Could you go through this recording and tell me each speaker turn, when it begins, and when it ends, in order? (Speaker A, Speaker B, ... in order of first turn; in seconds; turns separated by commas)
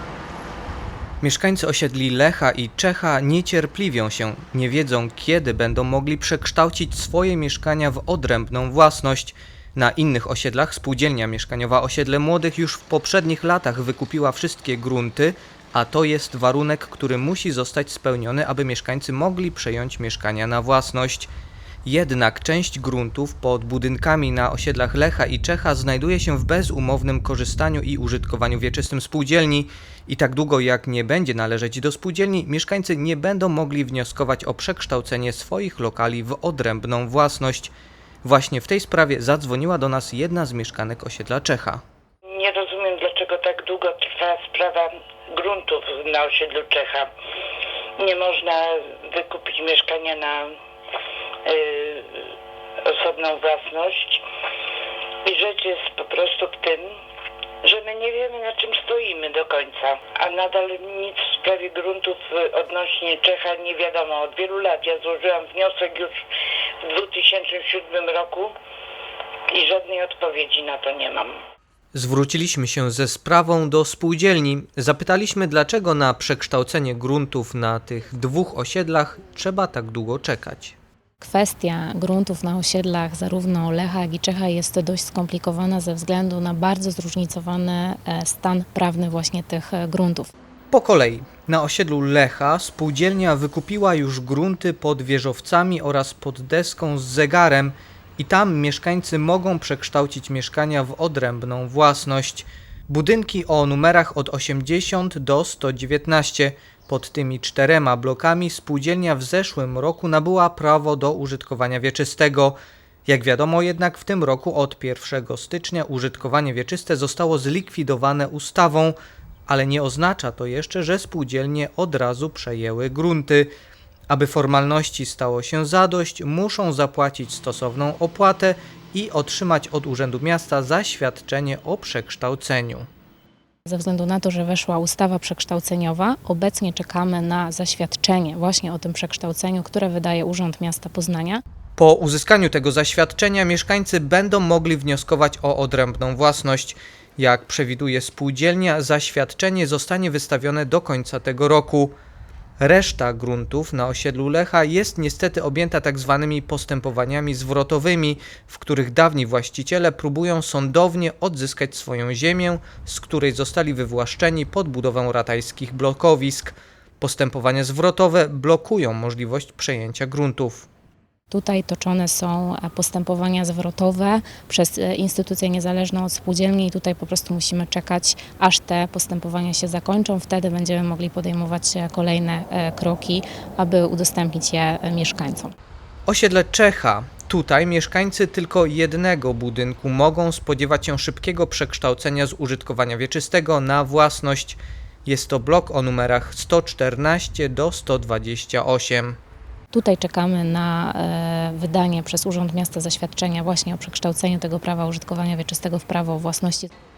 Speaker A: 1.2-21.3, Speaker A: 21.8-37.7, Speaker A: 38.2-41.8, Speaker B: 42.4-44.8, Speaker B: 45.4-47.0, Speaker B: 48.0-50.4, Speaker B: 51.5-52.0, Speaker B: 52.9-54.2, Speaker B: 55.3-56.8, Speaker B: 57.7-66.1, Speaker B: 66.9-68.5, Speaker B: 69.6-71.3, Speaker A: 71.9-80.8, Speaker C: 81.2-90.3, Speaker A: 90.7-119.0, Speaker A: 119.5-123.5, Speaker A: 124.1-132.9, Speaker C: 133.7-141.4, Speaker A: 141.8-151.9, Speaker A: 152.6-170.7, Speaker C: 171.3-185.5, Speaker A: 186.1-199.2, Speaker C: 199.7-206.7